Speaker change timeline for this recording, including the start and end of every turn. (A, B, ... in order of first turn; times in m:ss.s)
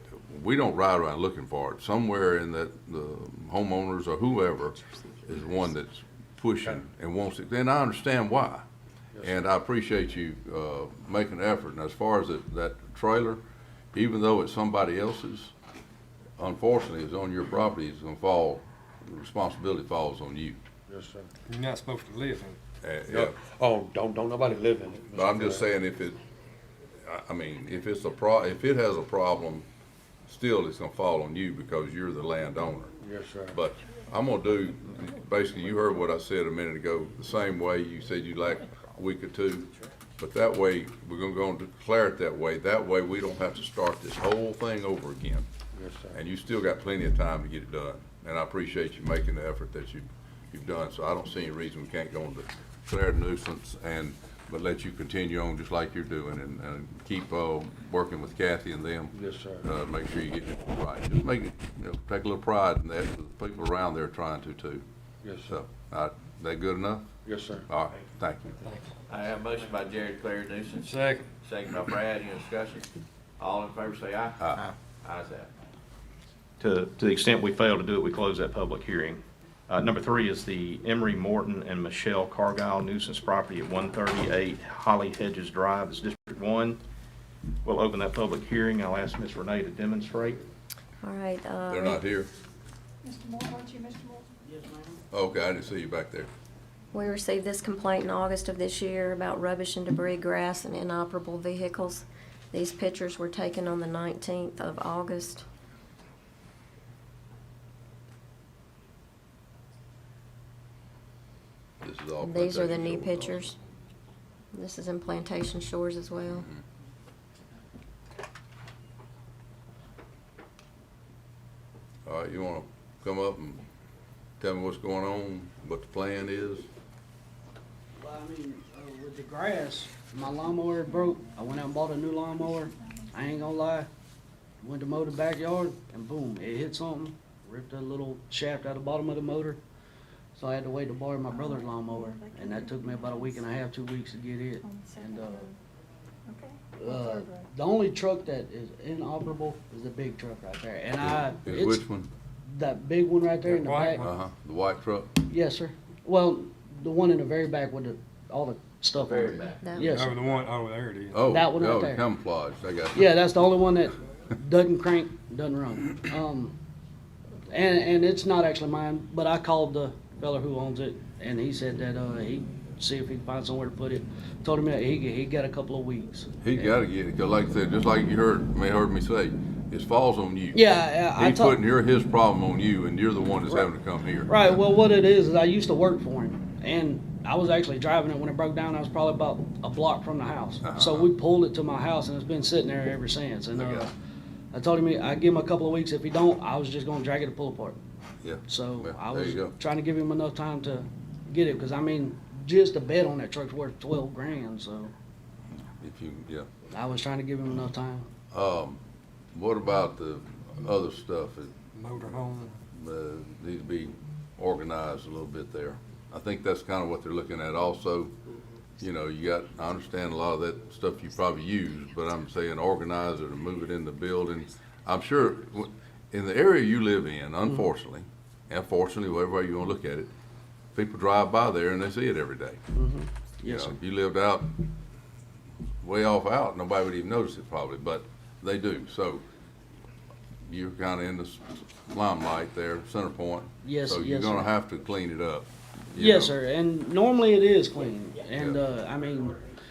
0:00.3-0:08.6 A
0:09.2-0:09.4 B
0:09.2-0:13.4 A
0:13.9-0:15.5 A
0:16.4-0:20.6 A
0:20.9-0:21.3 B
0:21.5-0:22.6 C
0:22.8-0:23.4 A
0:23.1-0:25.7 B
0:25.1-0:26.2 A
0:27.0-0:29.7 A
0:30.3-0:32.9 A
0:33.0-0:33.6 B
0:33.5-0:45.5 A
0:45.7-0:46.2 B
0:46.2-1:04.8 A
0:59.1-0:59.7 B
1:05.2-1:05.5 B
1:05.5-1:07.1 A
1:07.2-1:07.7 B
1:07.7-1:08.6 A
1:08.6-1:08.9 C
1:09.1-1:12.9 D
1:10.8-1:11.3 C
1:13.4-1:15.5 D
1:14.4-1:14.7 A
1:16.6-1:26.8 E
1:27.6-1:30.4 E
1:31.0-1:32.0 F
1:31.7-1:32.3 A
1:33.0-1:34.3 G
1:34.4-1:35.0 H
1:35.1-1:36.3 A
1:36.9-1:45.4 F
1:51.8-1:53.5 A
1:52.2-1:53.6 F
1:54.5-1:56.5 F
2:02.1-2:03.6 A
2:04.4-2:06.7 A
2:08.0-2:13.9 H
2:12.5-2:13.4 G
2:14.6-2:19.6 H
2:20.4-2:25.5 H
2:21.3-2:23.4 G
2:24.6-2:25.6 G
2:26.3-2:27.5 G
2:26.8-2:31.8 H
2:31.0-2:32.1 A
2:32.5-2:34.0 H
2:33.5-2:34.1 C
2:34.0-2:35.1 A
2:35.3-2:40.2 H
2:39.0-2:39.7 D
2:39.6-2:39.9 F
2:39.8-2:41.2 C
2:41.1-2:43.1 A
2:41.3-2:42.0 H
2:42.9-2:46.6 H
2:47.5-2:56.7 H
2:56.4-3:00.6 A
3:00.5-3:01.6 H
3:01.2-3:04.5 A
3:04.3-3:13.9 H
3:10.6-3:11.1 A
3:13.6-3:13.9 A
3:14.5-3:17.8 H
3:18.2-3:19.5 A
3:18.5-3:24.9 H
3:25.8-3:26.5 A
3:26.7-3:28.1 H
3:28.3-3:28.8 A
3:29.3-3:31.5 A
3:31.8-3:32.6 C
3:32.7-3:38.1 A
3:38.8-3:50.1 A
3:50.7-3:52.6 A
3:52.7-3:53.8 H
3:53.4-3:54.5 A
3:55.8-3:59.2 A
4:00.5-4:06.3 A
4:03.6-4:04.5 H
4:06.0-4:09.4 H